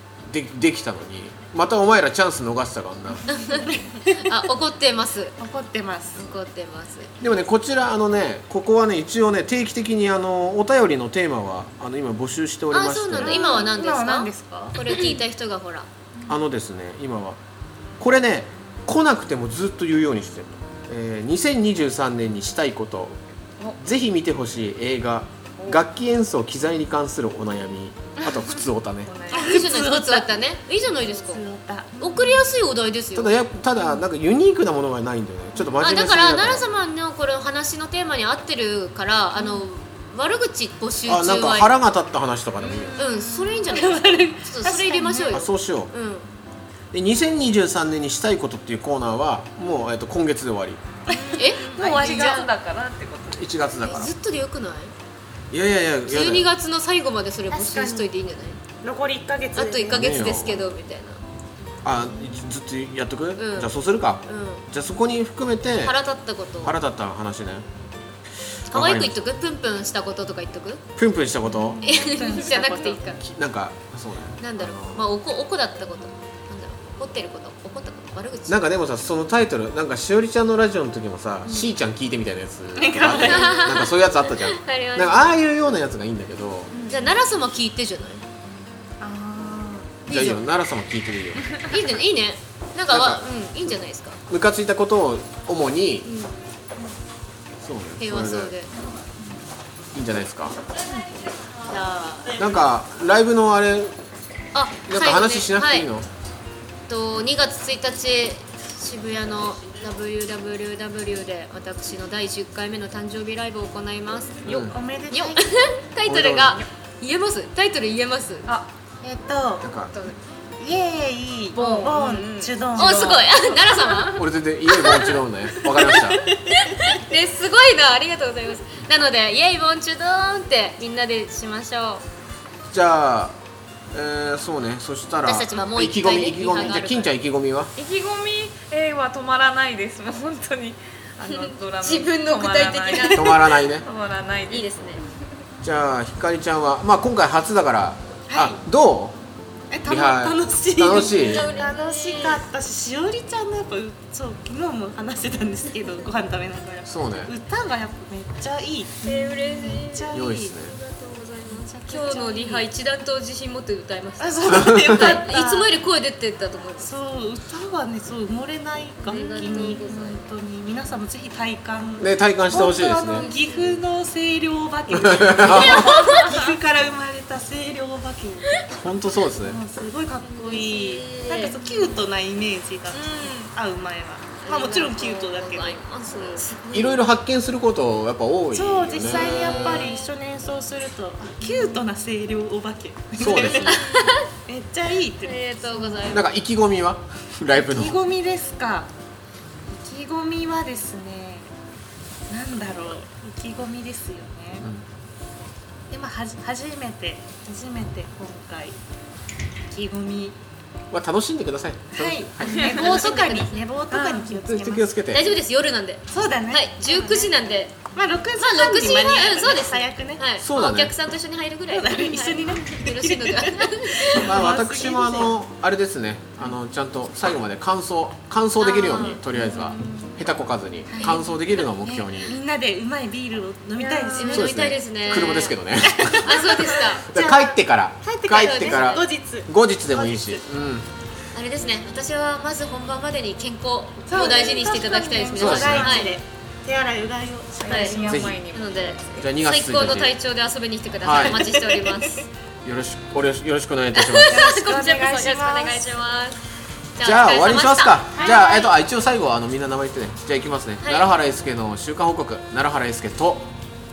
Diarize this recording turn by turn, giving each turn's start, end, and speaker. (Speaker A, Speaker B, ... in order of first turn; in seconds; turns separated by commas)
Speaker A: 0.2-3.2, Speaker B: 3.3-5.4, Speaker C: 3.7-4.3, Speaker C: 5.4-6.2, Speaker B: 6.1-7.1, Speaker A: 7.2-13.4, Speaker B: 12.7-15.9, Speaker C: 13.2-14.8, Speaker A: 16.3-17.4, Speaker A: 18.0-23.2, Speaker A: 23.8-29.1, Speaker D: 25.6-25.8, Speaker D: 28.2-29.7, Speaker B: 29.3-31.4, Speaker C: 29.3-30.3, Speaker C: 31.0-32.4, Speaker B: 32.0-33.4, Speaker A: 33.1-36.7, Speaker B: 35.8-41.7, Speaker A: 41.1-43.0, Speaker D: 42.6-43.6, Speaker B: 43.0-46.3, Speaker C: 43.7-45.4, Speaker A: 45.3-45.9, Speaker A: 46.9-50.8, Speaker C: 51.1-52.4, Speaker D: 51.1-53.7, Speaker B: 51.4-52.5, Speaker A: 53.3-54.1, Speaker B: 53.8-54.9, Speaker A: 55.5-56.5, Speaker B: 56.1-58.6, Speaker C: 57.5-58.1, Speaker C: 58.8-60.1, Speaker B: 59.5-61.2, Speaker A: 59.9-60.7, Speaker A: 61.8-66.0, Speaker B: 63.4-63.7, Speaker B: 64.2-64.7, Speaker B: 65.8-66.8, Speaker A: 66.6-67.7, Speaker A: 68.7-69.2, Speaker B: 68.7-70.8, Speaker A: 71.0-71.9, Speaker C: 71.8-73.2, Speaker B: 71.8-73.2, Speaker A: 73.2-75.0, Speaker B: 74.4-78.7, Speaker A: 78.5-86.7, Speaker C: 82.8-83.7, Speaker B: 83.2-85.2, Speaker D: 86.7-87.0, Speaker B: 86.9-88.2, Speaker C: 89.0-90.0, Speaker B: 90.1-90.5, Speaker A: 90.1-91.5, Speaker B: 91.7-94.2, Speaker A: 92.9-93.2, Speaker A: 94.3-96.1, Speaker B: 96.0-96.3, Speaker A: 97.6-98.5, Speaker B: 98.0-98.7, Speaker A: 99.9-100.6, Speaker B: 101.7-102.4, Speaker C: 101.7-102.4, Speaker A: 102.4-104.0, Speaker B: 104.5-105.9, Speaker A: 104.9-106.1, Speaker B: 106.9-118.5, Speaker A: 114.5-114.8, Speaker C: 114.5-115.5, Speaker A: 116.0-116.6, Speaker C: 119.0-119.7, Speaker A: 119.6-119.9, Speaker C: 120.6-123.3, Speaker D: 121.5-123.0, Speaker B: 121.6-122.0, Speaker B: 122.7-125.2, Speaker D: 123.8-124.2, Speaker A: 124.1-126.2, Speaker B: 125.9-132.0, Speaker C: 125.9-126.6, Speaker A: 132.7-133.4, Speaker A: 133.9-137.7, Speaker B: 135.2-137.1, Speaker D: 137.8-144.7, Speaker B: 141.3-143.5, Speaker A: 143.1-143.9, Speaker B: 144.5-145.0, Speaker A: 145.6-149.2, Speaker C: 148.3-148.6, Speaker C: 149.7-160.5, Speaker A: 149.8-151.5, Speaker B: 150.9-152.4, Speaker A: 156.8-157.3, Speaker B: 159.0-167.0, Speaker A: 160.1-160.8, Speaker C: 161.5-162.7, Speaker C: 164.2-165.8, Speaker A: 164.4-165.2, Speaker C: 166.8-178.7, Speaker B: 169.1-170.2, Speaker A: 172.0-173.3, Speaker B: 173.1-173.8, Speaker A: 174.9-176.0, Speaker B: 175.5-176.3, Speaker A: 178.7-179.6, Speaker C: 179.4-186.5, Speaker B: 180.3-181.6, Speaker D: 182.9-183.5, Speaker B: 184.4-187.0, Speaker A: 186.7-189.9, Speaker C: 188.5-196.1, Speaker B: 189.0-190.0, Speaker A: 193.2-193.8, Speaker B: 193.6-194.3, Speaker B: 195.2-196.3, Speaker A: 196.1-198.0, Speaker C: 197.7-198.9, Speaker C: 199.7-201.5, Speaker C: 202.3-204.7, Speaker C: 205.9-208.8, Speaker C: 209.7-210.4, Speaker A: 210.9-212.8, Speaker C: 211.9-214.9, Speaker D: 212.4-214.4, Speaker A: 214.4-215.3, Speaker B: 215.1-217.8, Speaker C: 216.1-217.3, Speaker C: 217.9-220.2, Speaker B: 218.4-224.5, Speaker A: 220.4-220.9, Speaker C: 221.7-225.4, Speaker A: 224.2-232.3, Speaker B: 228.6-229.2, Speaker D: 229.5-229.9, Speaker C: 230.9-231.3, Speaker C: 231.8-240.4, Speaker D: 233.8-234.5, Speaker B: 234.2-235.6, Speaker A: 234.3-236.5, Speaker B: 236.2-237.1, Speaker A: 237.1-240.9, Speaker B: 238.4-239.1, Speaker B: 241.3-246.2, Speaker C: 244.1-248.3, Speaker A: 245.3-246.0, Speaker D: 247.6-249.3, Speaker B: 247.7-252.3, Speaker A: 248.1-248.4, Speaker A: 249.2-250.1, Speaker A: 251.0-251.4, Speaker C: 251.2-251.9, Speaker A: 252.6-254.3, Speaker B: 253.9-256.4, Speaker C: 254.2-255.9, Speaker B: 257.0-258.7, Speaker A: 257.0-263.5, Speaker C: 258.2-258.5, Speaker B: 260.8-261.1